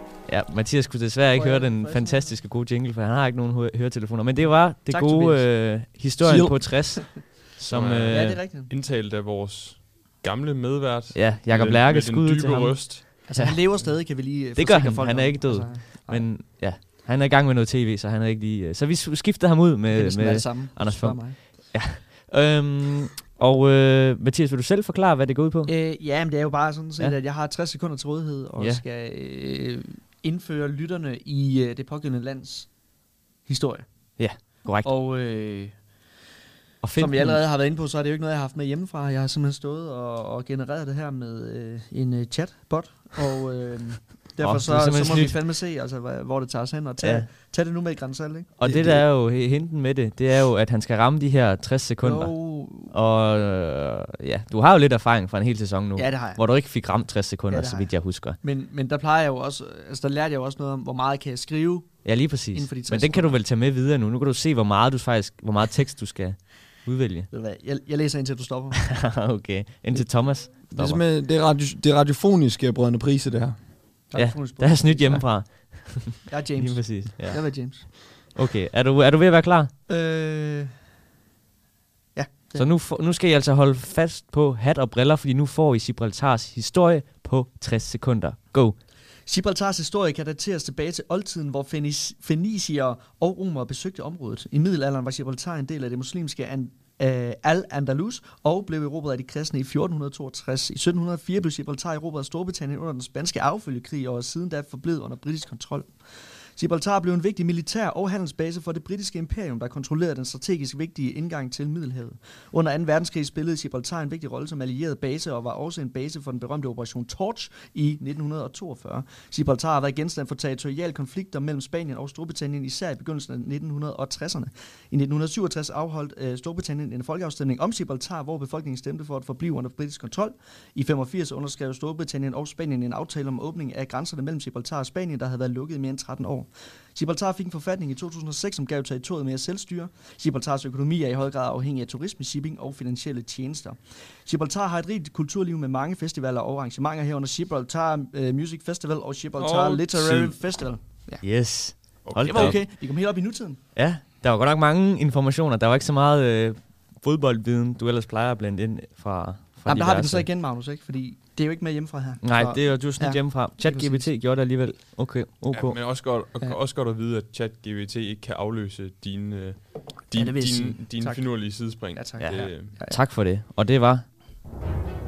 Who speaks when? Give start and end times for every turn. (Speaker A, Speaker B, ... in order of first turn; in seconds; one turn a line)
Speaker A: 0.3-8.4
Speaker B: 1.3-2.4
Speaker B: 4.4-5.6
Speaker C: 6.2-6.8
Speaker B: 6.8-7.2
Speaker D: 7.7-13.2
Speaker B: 8.1-8.7
Speaker A: 11.1-13.8
Speaker B: 13.2-16.3
Speaker A: 14.5-25.7
Speaker B: 19.9-21.4
Speaker B: 25.6-32.9
Speaker A: 28.6-28.8
Speaker B: 33.4-36.0
Speaker A: 34.2-34.9
Speaker A: 36.8-37.5
Speaker B: 36.9-48.5
Speaker A: 44.4-45.4
Speaker A: 47.0-47.3
Speaker A: 48.6-58.4
Speaker C: 48.6-49.0
Speaker B: 52.0-52.9
Speaker B: 56.0-63.4
Speaker A: 62.0-67.3
Speaker B: 67.3-69.0
Speaker A: 68.9-71.0
Speaker B: 69.9-70.5
Speaker C: 70.7-73.7
Speaker B: 74.1-75.7
Speaker A: 74.1-79.7
Speaker B: 76.3-77.9
Speaker B: 79.9-80.8
Speaker B: 82.1-82.7
Speaker A: 82.5-88.8
Speaker B: 89.2-153.6
Speaker D: 149.4-151.0
Speaker A: 151.2-160.3
Speaker D: 152.0-152.7
Speaker B: 159.6-164.1
Speaker A: 162.2-166.0
Speaker D: 165.5-172.7
Speaker B: 170.1-173.1
Speaker A: 172.2-174.1